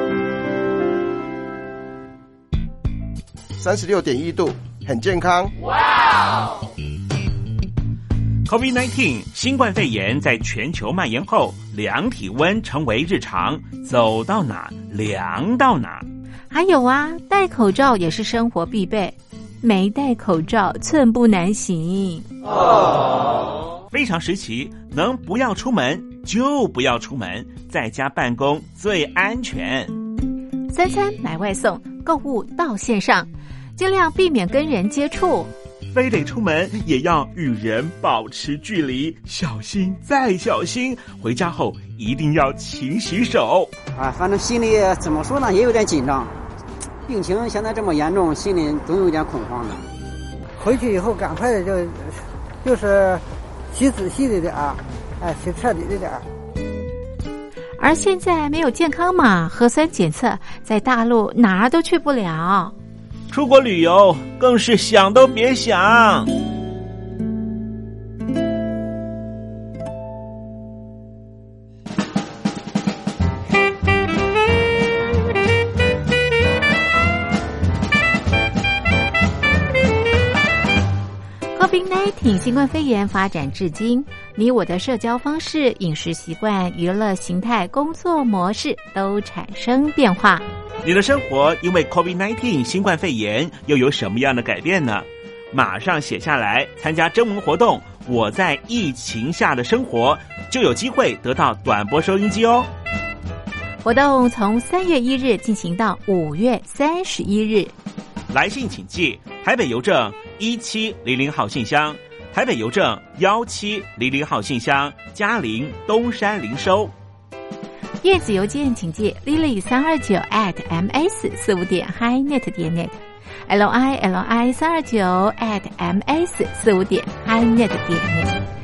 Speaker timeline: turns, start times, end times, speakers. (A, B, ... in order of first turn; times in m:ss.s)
0:03.6-0:05.5 A
0:08.4-0:16.0 B
0:16.5-0:22.3 C
0:23.9-0:29.9 B
0:30.7-0:35.5 C
0:35.9-0:43.7 B
0:43.9-0:46.3 D
0:47.1-0:49.8 D
0:50.6-0:56.2 E
0:57.8-1:02.7 C
1:03.3-1:06.3 B
1:21.5-1:30.4 C
1:30.8-1:42.7 B
1:43.8-1:47.7 C
1:48.3-1:56.9 B
1:58.0-2:08.3 C